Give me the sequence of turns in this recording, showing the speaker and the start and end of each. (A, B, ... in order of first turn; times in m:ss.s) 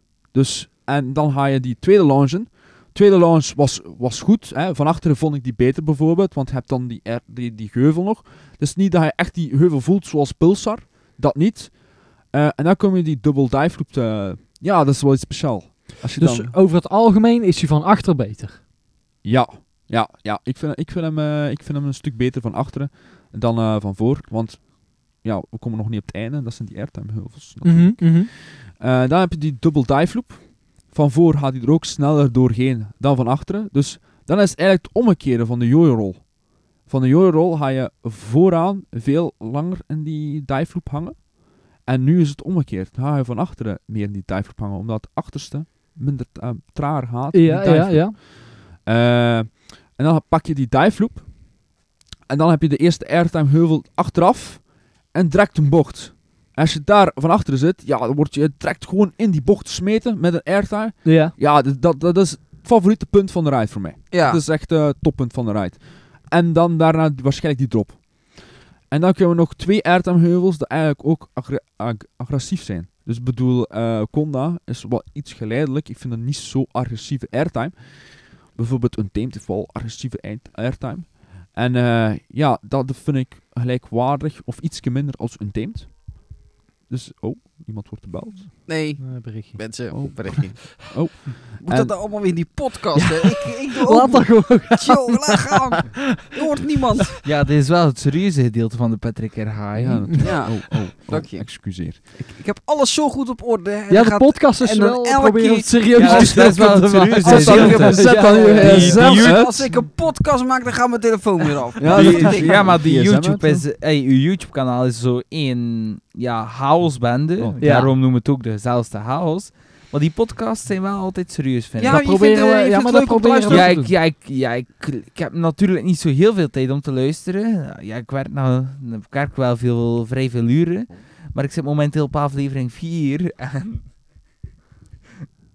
0:00.2-0:16.5 A
0:16.2-0:18.6 B
0:19.2-0:36.3 A
0:27.6-0:28.3 B
0:36.8-0:51.4 A
0:47.3-0:48.1 B
0:52.3-1:28.6 A
1:01.0-1:01.3 B
1:04.1-1:04.4 C
1:28.7-1:30.6 C
1:29.0-1:30.0 B
1:29.9-1:32.0 A
1:31.6-1:37.2 C
1:33.0-1:35.2 B
1:37.2-1:40.2 D
1:39.8-1:42.0 A
1:40.2-1:46.8 C
1:43.9-1:48.9 B
1:46.0-1:49.6 D
1:47.2-1:49.7 A
1:47.4-1:52.8 C
1:51.8-1:53.7 A
1:51.9-2:02.0 D
1:57.4-1:57.8 A
1:57.6-1:57.9 B
2:01.8-2:03.7 C
2:01.8-2:03.9 B
2:03.5-2:13.9 D